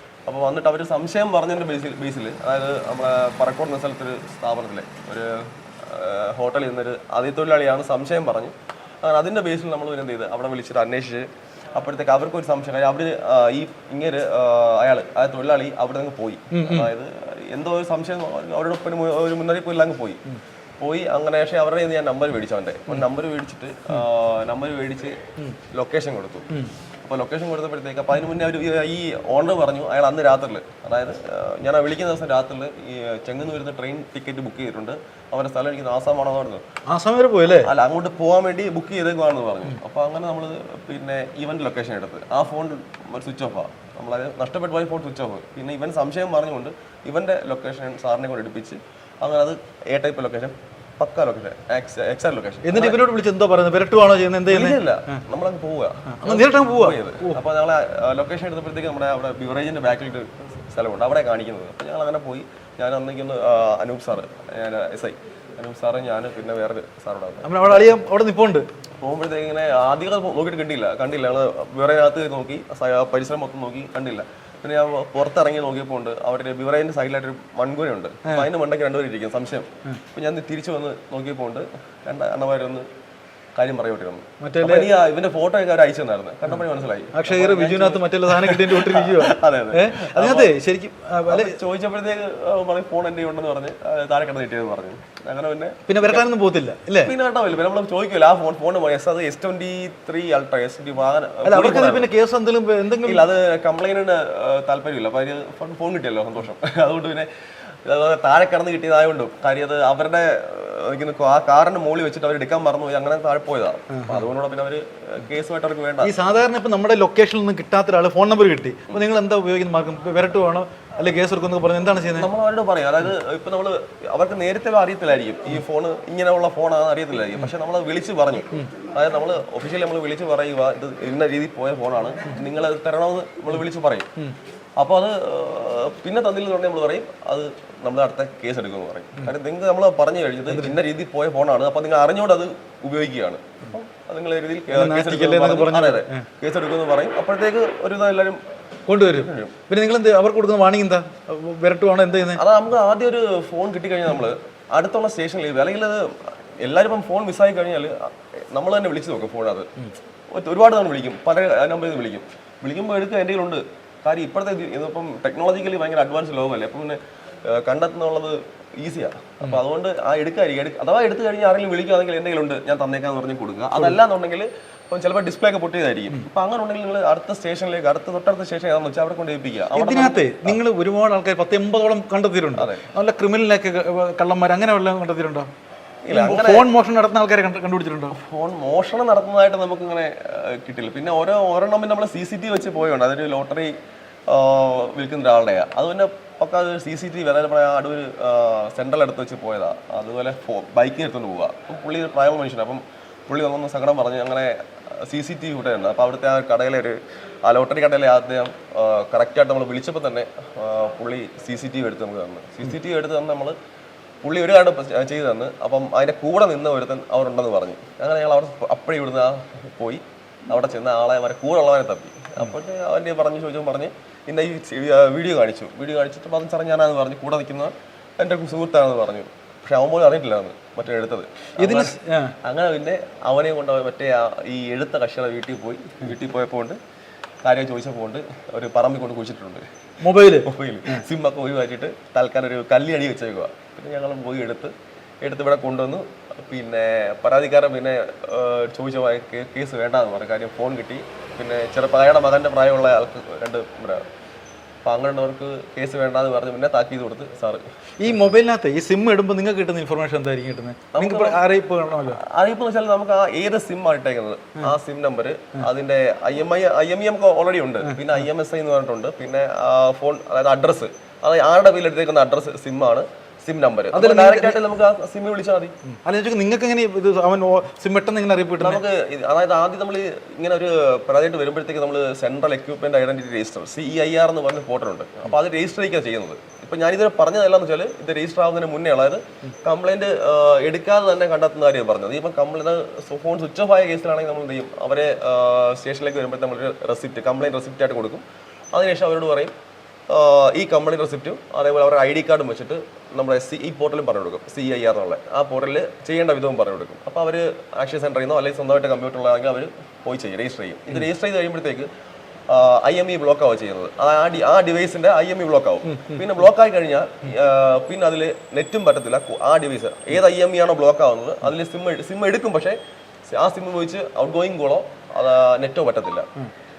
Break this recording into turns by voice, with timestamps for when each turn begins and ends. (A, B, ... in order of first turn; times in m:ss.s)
0:00.3-0:20.2 A
0:16.5-0:16.9 B
0:20.8-0:25.2 A
0:25.7-0:26.5 A
0:27.0-0:36.6 A
0:36.9-0:37.7 B
0:37.6-0:53.0 A
0:52.6-0:55.2 B
0:54.5-1:07.8 A
0:56.1-0:57.4 B
1:07.4-1:08.7 B
1:09.0-1:22.8 A
1:23.6-1:30.5 A
1:24.4-1:24.9 B
1:27.1-1:31.6 B
1:31.3-1:36.2 A
1:35.9-1:37.1 B
1:37.0-1:42.1 A
1:41.4-1:43.2 B
1:43.0-1:47.3 A
1:47.9-1:56.1 A
1:53.9-1:54.2 B
1:56.0-2:02.3 B
2:02.1-2:14.1 A
2:14.8-2:28.4 A
2:20.5-2:20.8 B
2:24.7-2:26.3 B
2:28.9-2:32.4 B
2:28.9-2:29.5 A
2:32.3-2:39.7 A
2:40.3-3:00.6 A
2:59.7-3:05.5 B
3:02.5-3:02.8 A
3:06.0-3:06.7 A
3:06.1-3:08.1 B
3:08.2-3:13.7 A
3:14.3-3:33.5 A
3:34.2-3:56.8 A
3:51.6-3:52.4 B
3:57.4-3:59.6 A
4:00.0-4:01.0 B
4:00.4-4:14.0 A
4:14.8-4:18.2 A
4:18.0-4:22.2 B
4:20.9-4:21.4 A
4:22.0-4:35.7 A
4:27.8-4:28.1 B
4:33.9-4:34.6 B
4:35.9-4:38.8 B
4:38.6-4:59.5 A
5:00.1-5:11.9 A
5:12.5-5:22.8 A
5:15.8-5:16.4 B
5:23.3-5:26.3 A